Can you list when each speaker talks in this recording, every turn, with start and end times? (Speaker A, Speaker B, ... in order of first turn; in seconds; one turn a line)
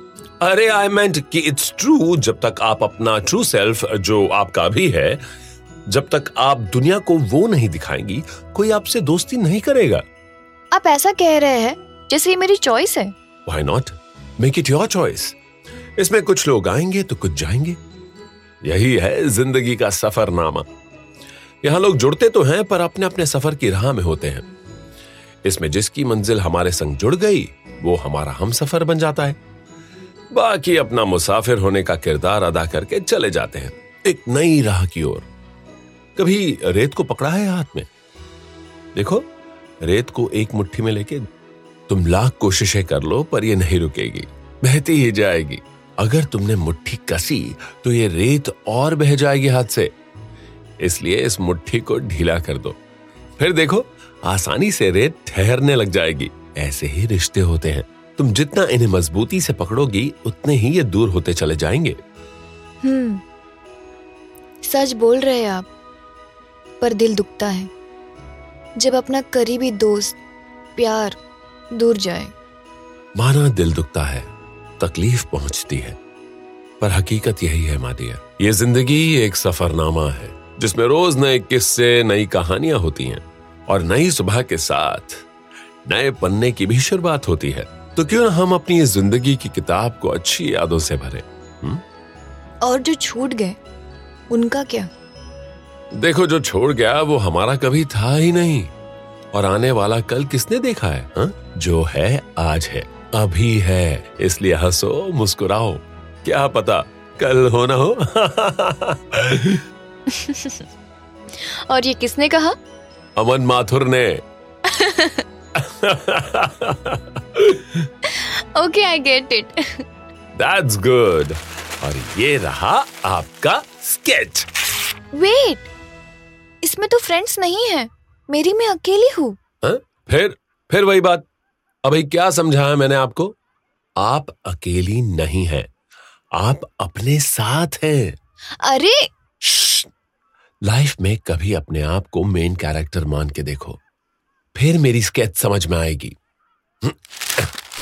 Speaker A: 0.4-5.2
Speaker A: 5.9-10.0
Speaker B: 10.7-13.1
Speaker A: 13.5-15.4
Speaker A: 16.0-17.8
Speaker A: 18.6-20.6
Speaker A: 21.6-24.4
Speaker A: 25.4-29.4
Speaker A: 30.3-35.3
Speaker A: 36.2-37.9
Speaker A: 38.9-39.3
Speaker A: 39.8-41.2
Speaker A: 41.9-49.9
Speaker A: 50.8-52.8
Speaker A: 53.4-62.0
Speaker B: 62.8-63.2
Speaker B: 64.6-65.7
Speaker B: 66.8-67.7
Speaker B: 68.8-70.2
Speaker B: 70.8-71.2
Speaker B: 71.7-72.3
Speaker A: 73.2-76.0
Speaker A: 76.8-85.2
Speaker A: 85.9-91.8
Speaker B: 92.6-93.6
Speaker B: 94.3-94.9
Speaker A: 95.9-98.7
Speaker A: 99.3-109.6
Speaker B: 110.1-110.6
Speaker B: 111.7-112.5
Speaker A: 113.2-114.2
Speaker B: 114.7-115.2
Speaker A: 115.5-117.9
Speaker B: 118.1-119.8
Speaker A: 120.4-124.5
Speaker B: 125.1-125.7
Speaker B: 126.6-129.4
Speaker A: 129.6-131.2
Speaker A: 131.8-133.3
Speaker A: 134.0-135.7
Speaker A: 136.3-138.2
Speaker B: 138.6-139.1
Speaker A: 139.4-139.9
Speaker A: 140.6-143.8
Speaker A: 144.5-146.2
Speaker A: 146.8-147.5